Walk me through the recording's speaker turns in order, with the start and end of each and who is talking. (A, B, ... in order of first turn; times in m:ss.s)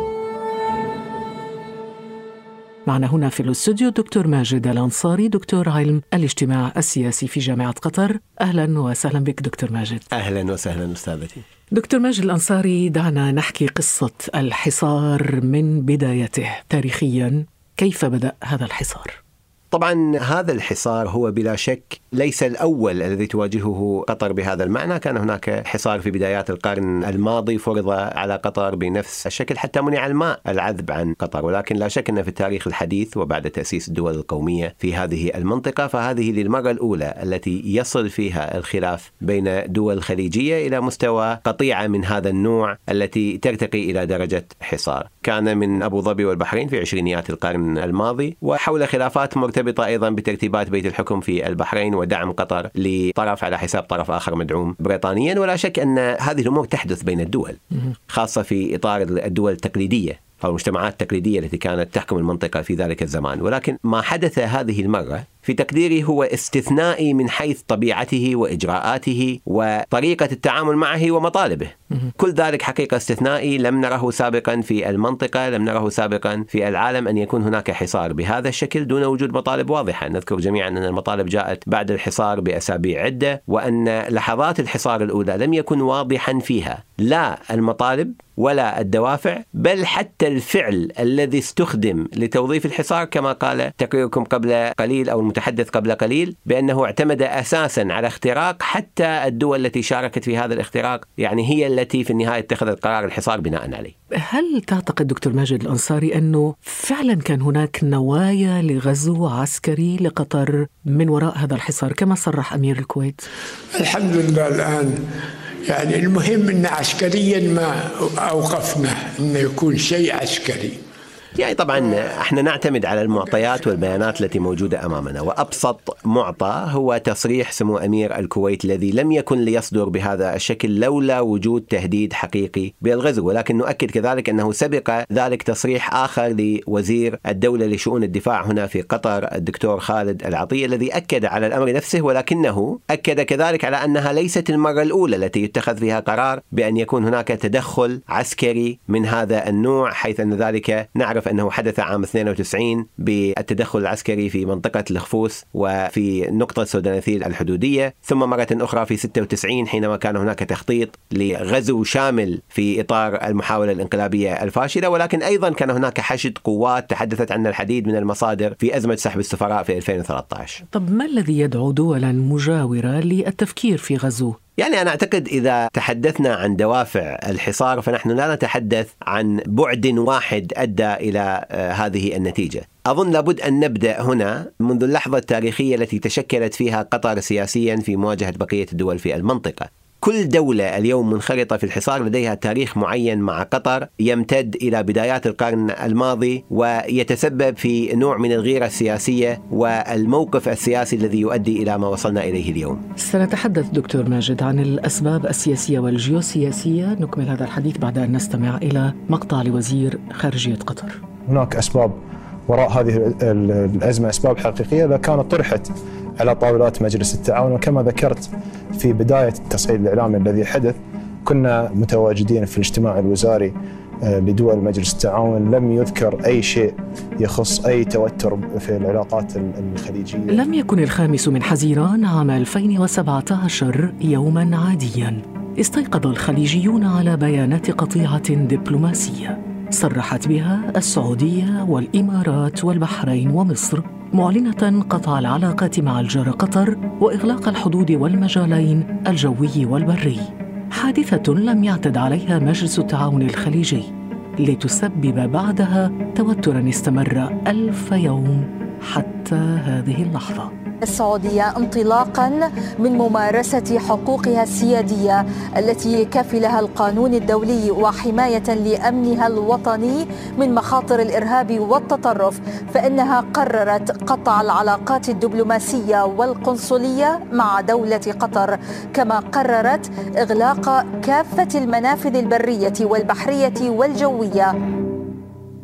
0:02.9-0:10.0 A
0:10.1-0:11.4 B
0:11.7-0:19.2 A
0:19.7-0:57.6 B
0:58.1-1:43.9 B
1:44.3-1:53.2 A
1:53.7-1:55.0 C
1:55.7-2:00.8 C
2:01.4-2:50.6 B
2:50.7-2:54.4 A
2:54.6-3:22.8 B
3:23.0-3:31.0 A
3:31.3-3:32.0 D
3:32.5-3:35.7 D
3:36.2-3:43.5 D
3:44.1-3:50.4 D
3:50.3-4:13.9 A
4:14.4-4:20.5 A
4:20.8-4:44.5 E